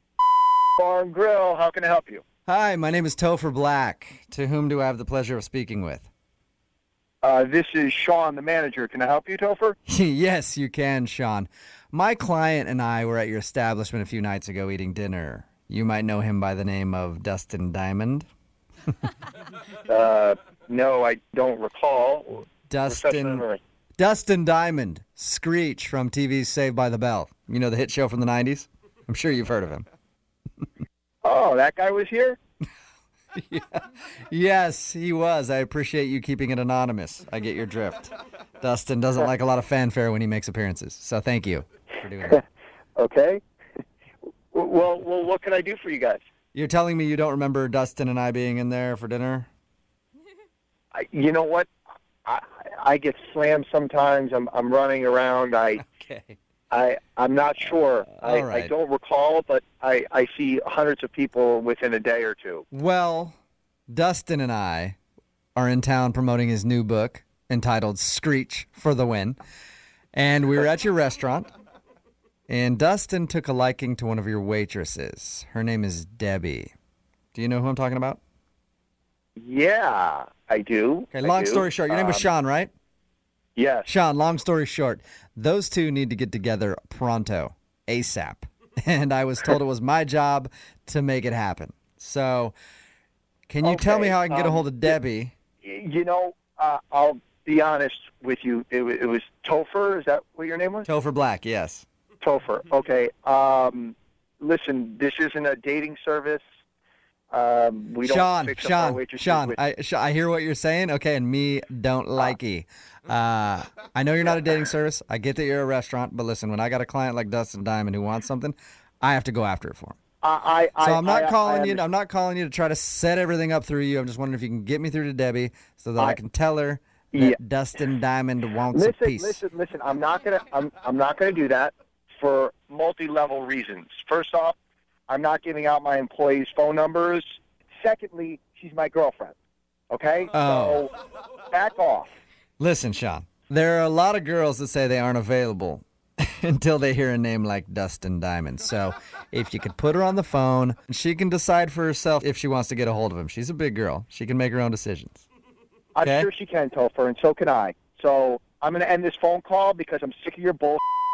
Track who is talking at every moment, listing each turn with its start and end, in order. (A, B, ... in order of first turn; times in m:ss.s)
0:00.8-0:02.2 A
0:02.5-0:06.1 B
0:07.2-0:09.8 A
0:09.9-0:18.3 B
0:19.8-0:23.6 A
0:22.7-0:23.4 B
0:24.0-0:29.8 B
0:31.2-0:32.4 A
0:33.4-0:42.4 B
0:43.0-0:43.4 A
0:44.5-0:46.2 A
0:46.5-0:49.5 B
0:50.9-0:51.7 A
0:52.2-0:55.8 A
0:55.8-0:56.4 B
0:56.7-1:02.6 A
0:58.2-0:58.7 B
1:02.7-1:03.4 B
1:03.9-1:05.0 B
1:05.6-1:09.4 B
1:10.1-1:11.5 B
1:12.5-1:16.7 B
1:17.3-1:18.2 B
1:19.4-1:22.3 A
1:21.1-1:22.7 B
1:23.6-1:23.9 A
1:23.9-1:32.6 B
1:33.5-1:35.3 B
1:33.6-1:35.0 A
1:35.6-1:40.9 A
1:40.8-1:41.8 B
1:42.2-1:46.4 A
1:47.3-1:49.6 A
1:48.0-2:00.0 B
2:00.2-2:01.8 A
2:00.8-2:09.4 B
2:07.1-2:07.4 A
2:08.7-2:14.6 A
2:15.1-2:19.4 A
2:19.9-2:20.9 A
2:20.3-2:20.9 B
2:21.5-2:22.1 A
2:22.6-2:35.2 B
2:35.9-2:40.8 A
2:36.0-2:36.3 B